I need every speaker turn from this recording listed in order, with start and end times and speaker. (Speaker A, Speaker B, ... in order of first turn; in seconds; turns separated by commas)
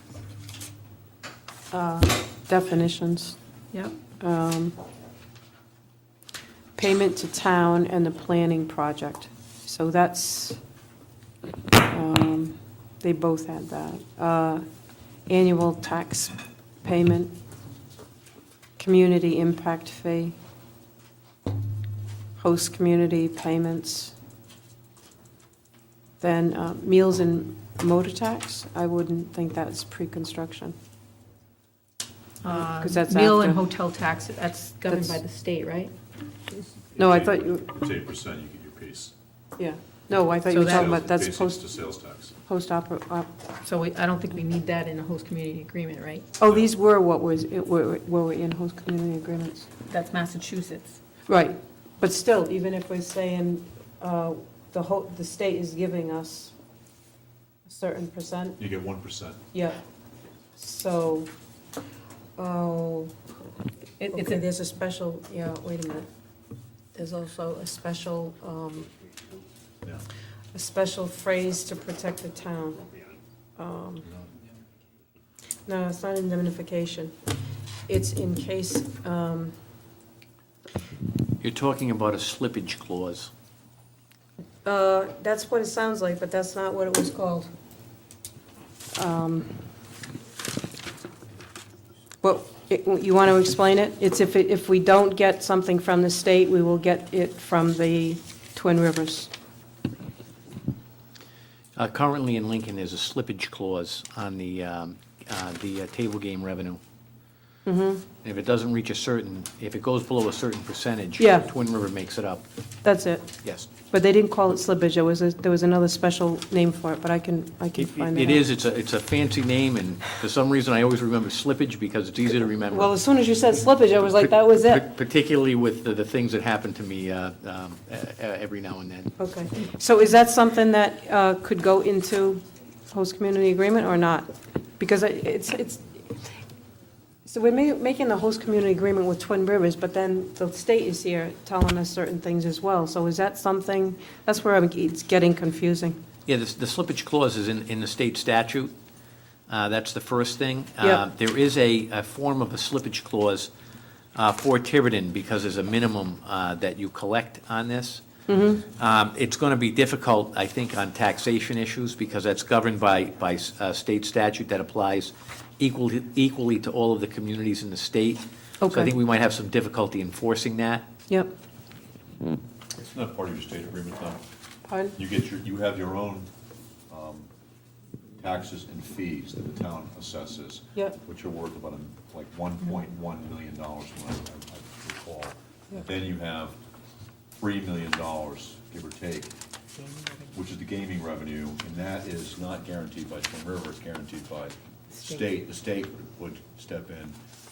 Speaker A: 1.7-3.4, Speaker B: 3.7-4.0, Speaker A: 4.2-4.8, Speaker A: 6.8-10.6, Speaker A: 11.9-14.6, Speaker A: 15.3-16.3, Speaker A: 16.8-17.4, Speaker A: 18.8-20.4, Speaker A: 22.4-24.1, Speaker A: 26.2-30.8, Speaker B: 32.4-35.9, Speaker A: 32.5-33.6, Speaker A: 34.9-35.2, Speaker C: 36.9-39.1, Speaker A: 37.0-37.7, Speaker A: 39.6-41.6, Speaker B: 40.5-41.0, Speaker C: 40.5-42.3, Speaker A: 42.5-43.3, Speaker B: 43.6-46.3, Speaker A: 46.4-49.7, Speaker B: 49.9-51.0, Speaker A: 51.3-56.5, Speaker A: 57.7-58.6, Speaker C: 58.6-59.4, Speaker A: 59.5-59.8, Speaker A: 60.6-61.3, Speaker A: 62.4-63.1, Speaker A: 64.0-66.1, Speaker B: 64.1-64.4, Speaker A: 67.0-68.9, Speaker A: 70.5-72.8, Speaker A: 73.6-74.1, Speaker A: 75.7-77.1, Speaker A: 77.9-79.5, Speaker D: 81.4-83.3, Speaker A: 84.7-87.5, Speaker A: 89.0-89.5, Speaker A: 92.2-99.3, Speaker D: 101.8-106.8, Speaker A: 107.7-108.0, Speaker D: 108.2-112.5, Speaker A: 111.2-111.5, Speaker A: 112.8-113.3, Speaker A: 113.9-118.5, Speaker D: 117.8-122.9, Speaker A: 122.7-124.8, Speaker D: 124.6-129.1, Speaker A: 129.2-134.3, Speaker A: 134.8-136.3, Speaker A: 137.3-146.0, Speaker D: 146.3-148.7, Speaker D: 149.5-153.5, Speaker D: 154.2-158.0, Speaker A: 158.3-158.6, Speaker D: 158.8-170.9, Speaker A: 168.6-168.9, Speaker C: 172.8-174.2, Speaker A: 174.7-175.0, Speaker C: 175.0-176.3, Speaker C: 176.9-177.3, Speaker C: 178.2-186.6, Speaker C: 187.4-189.3, Speaker C: 190.3-197.2